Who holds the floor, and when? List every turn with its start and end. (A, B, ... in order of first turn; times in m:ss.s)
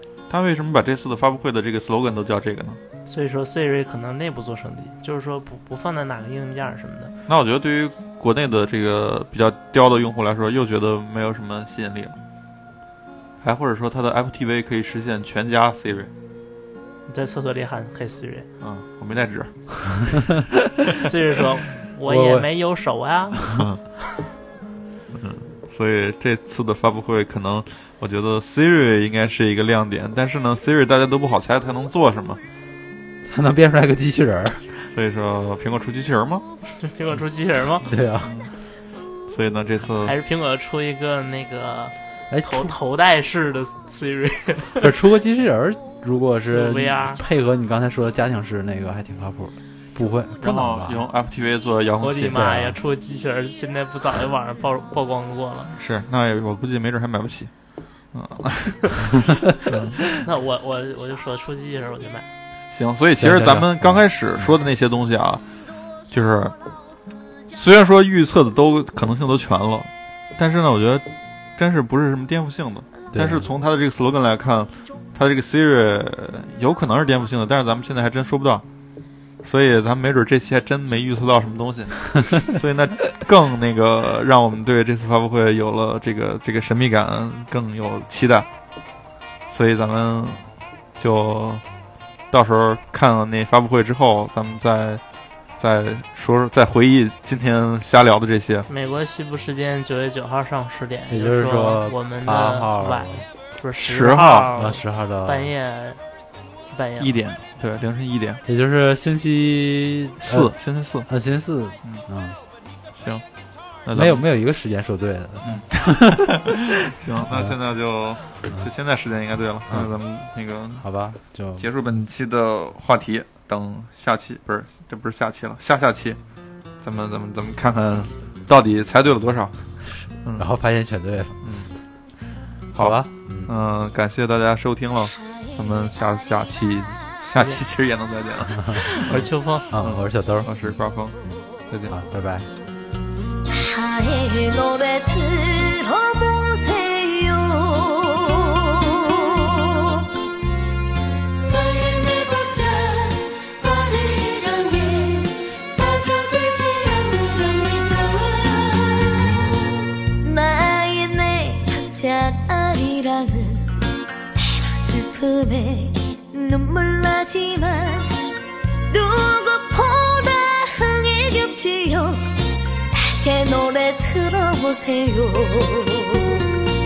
0:00.3-0:02.8 A
0:03.0-0:07.1 B
0:07.3-0:12.1 A
0:13.4-0:16.1 A
0:17.1-0:18.5 B
0:18.6-0:19.5 A
0:20.1-0:20.7 C
0:20.9-0:23.5 B
0:22.1-0:22.5 C
0:23.4-0:23.6 C
0:23.5-0:23.8 A
0:25.1-0:32.4 A
0:33.2-0:34.6 C
0:34.9-0:36.4 A
0:36.8-0:37.9 B
0:37.8-0:38.3 C
0:38.2-0:38.5 A
0:39.3-0:40.2 A
0:40.0-0:44.9 B
0:42.3-0:42.7 C
0:44.8-0:51.0 C
0:46.5-0:47.2 B
0:50.4-0:52.6 A
0:52.0-0:55.7 B
0:52.3-0:52.8 C
0:55.7-0:57.5 A
0:58.1-1:00.0 A
1:00.1-1:02.2 B
1:02.7-1:05.4 A
1:03.2-1:04.0 C
1:06.1-1:06.5 A
1:07.5-1:11.0 A
1:11.6-1:18.6 A
1:13.1-1:13.5 C
1:19.4-1:28.5 A
1:29.5-1:30.4 A
1:31.0-1:31.6 A
1:32.3-1:35.0 A
1:35.6-1:38.7 A
1:38.7-1:46.0 B
1:41.1-1:43.2 C
1:43.8-1:44.5 A
1:44.5-1:45.5 C
1:46.7-1:47.1 B
1:47.0-1:48.4 A
1:48.4-1:50.5 C
1:50.2-1:51.1 A
1:51.1-1:52.4 C
1:53.0-1:53.2 A
1:53.8-1:54.2 A
1:53.9-1:56.6 C
1:55.4-2:00.8 A
1:57.3-1:57.5 C
2:00.8-2:01.6 C
2:01.6-2:06.2 A
2:06.8-2:09.5 A
2:10.2-2:10.5 A
2:10.4-2:11.4 C
2:11.4-2:11.7 A
2:12.7-2:21.2 A
2:12.8-2:13.5 C
2:18.7-2:19.7 B
2:19.7-2:20.5 C
2:21.3-2:22.5 C
2:21.7-2:21.9 A
2:23.5-2:30.2 D
2:31.4-2:43.8 D
2:44.3-2:48.3 D
2:48.9-2:52.3 D
2:52.9-2:56.6 D